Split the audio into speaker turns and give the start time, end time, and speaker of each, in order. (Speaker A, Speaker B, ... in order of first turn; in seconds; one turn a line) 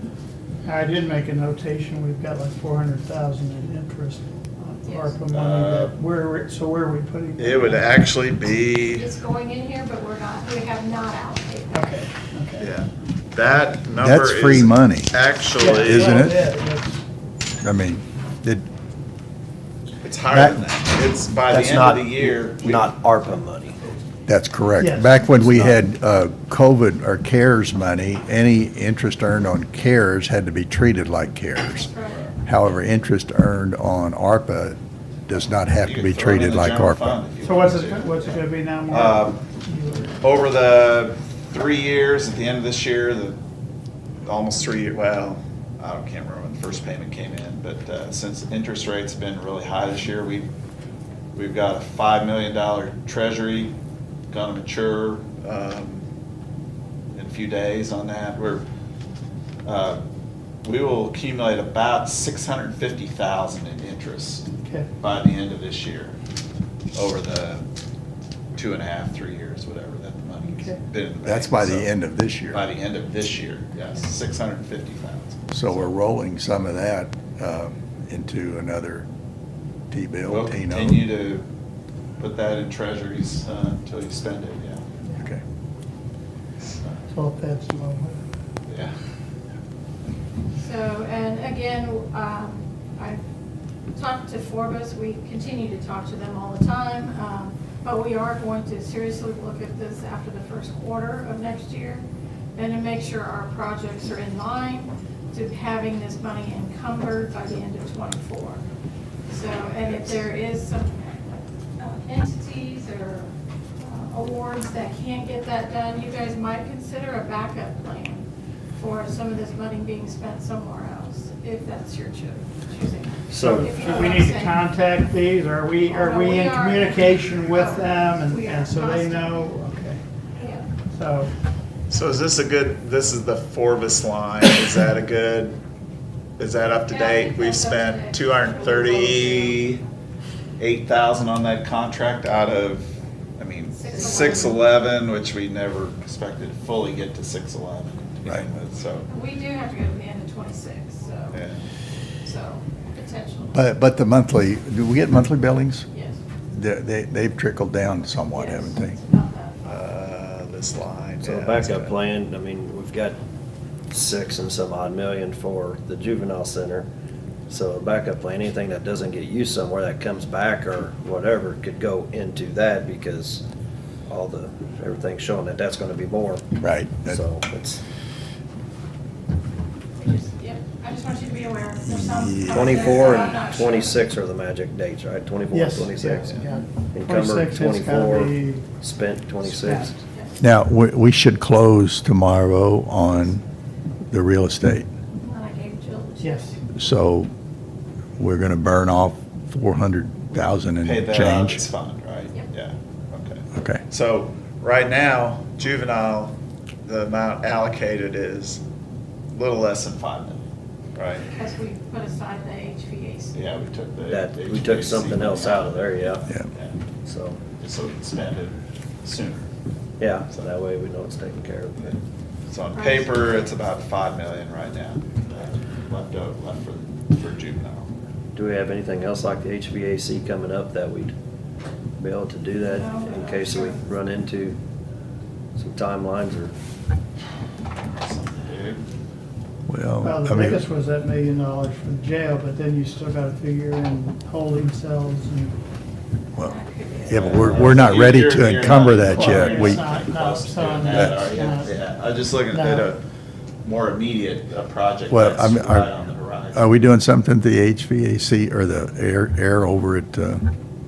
Speaker A: 0.6-7.9
Speaker B: 4.8-5.2
Speaker C: 5.3-6.0
Speaker C: 7.4-9.1
Speaker B: 8.9-11.9
Speaker A: 11.7-12.7
Speaker C: 12.6-16.3
Speaker D: 14.0-16.4
Speaker A: 15.6-17.0
Speaker D: 17.6-18.6
Speaker C: 20.0-22.9
Speaker E: 21.5-23.8
Speaker D: 24.3-31.9
Speaker A: 24.8-25.3
Speaker B: 31.7-32.3
Speaker D: 32.4-37.2
Speaker C: 35.8-39.4
Speaker A: 37.4-40.2
Speaker C: 40.2-43.4
Speaker C: 44.2-50.5
Speaker C: 51.3-53.7
Speaker C: 54.3-56.0
Speaker C: 57.1-58.6
Speaker C: 59.6-60.0
Speaker C: 60.6-64.5
Speaker A: 64.6-64.9
Speaker C: 65.0-66.1
Speaker C: 66.9-67.7
Speaker C: 68.5-71.9
Speaker A: 70.4-70.8
Speaker D: 71.2-72.6
Speaker C: 72.5-75.8
Speaker D: 75.5-79.1
Speaker D: 79.9-81.0
Speaker C: 80.2-81.5
Speaker C: 82.2-84.8
Speaker C: 86.7-87.0
Speaker A: 87.1-88.2
Speaker C: 88.7-88.9
Speaker B: 90.6-93.2
Speaker B: 93.9-102.0
Speaker B: 102.5-108.6
Speaker B: 109.3-124.7
Speaker C: 109.4-110.2
Speaker E: 123.3-123.8
Speaker A: 123.3-130.0
Speaker B: 125.9-129.4
Speaker B: 130.4-130.6
Speaker A: 130.9-131.3
Speaker C: 131.9-135.6
Speaker C: 136.4-139.8
Speaker B: 136.9-139.8
Speaker C: 140.6-149.1
Speaker B: 143.7-144.6
Speaker B: 149.1-151.4
Speaker C: 151.3-151.6
Speaker B: 152.2-153.6
Speaker D: 153.5-155.9
Speaker B: 155.9-156.2
Speaker D: 156.5-159.0
Speaker B: 158.3-159.6
Speaker C: 159.6-161.9
Speaker E: 161.2-163.2
Speaker E: 163.9-166.9
Speaker E: 167.5-173.4
Speaker E: 174.1-176.4
Speaker D: 176.6-177.2
Speaker E: 177.1-177.8
Speaker B: 180.0-184.0
Speaker D: 181.8-183.1
Speaker E: 182.5-190.0
Speaker A: 185.5-188.7
Speaker A: 189.5-189.9
Speaker D: 190.4-193.4
Speaker D: 194.1-194.9
Speaker B: 195.2-196.6
Speaker A: 196.2-196.5
Speaker D: 196.7-197.3
Speaker D: 198.2-201.6
Speaker C: 200.8-208.6
Speaker D: 203.5-203.8
Speaker C: 209.3-210.4
Speaker C: 210.9-211.3
Speaker B: 211.2-213.3
Speaker C: 213.3-216.7
Speaker E: 214.1-216.3
Speaker E: 217.0-217.4
Speaker C: 217.6-219.4
Speaker E: 220.0-222.0
Speaker C: 221.8-227.9
Speaker B: 222.7-223.5
Speaker E: 228.3-231.1
Speaker E: 232.0-234.6
Speaker B: 232.6-233.8
Speaker E: 235.6-236.5
Speaker C: 237.9-238.8
Speaker D: 239.7-240.6
Speaker A: 240.0-245.6
Speaker D: 246.3-249.8
Speaker B: 246.4-247.8
Speaker C: 247.1-253.0
Speaker A: 249.1-251.7
Speaker A: 252.5-252.9
Speaker C: 253.6-256.7
Speaker D: 255.1-255.9
Speaker D: 256.5-260.5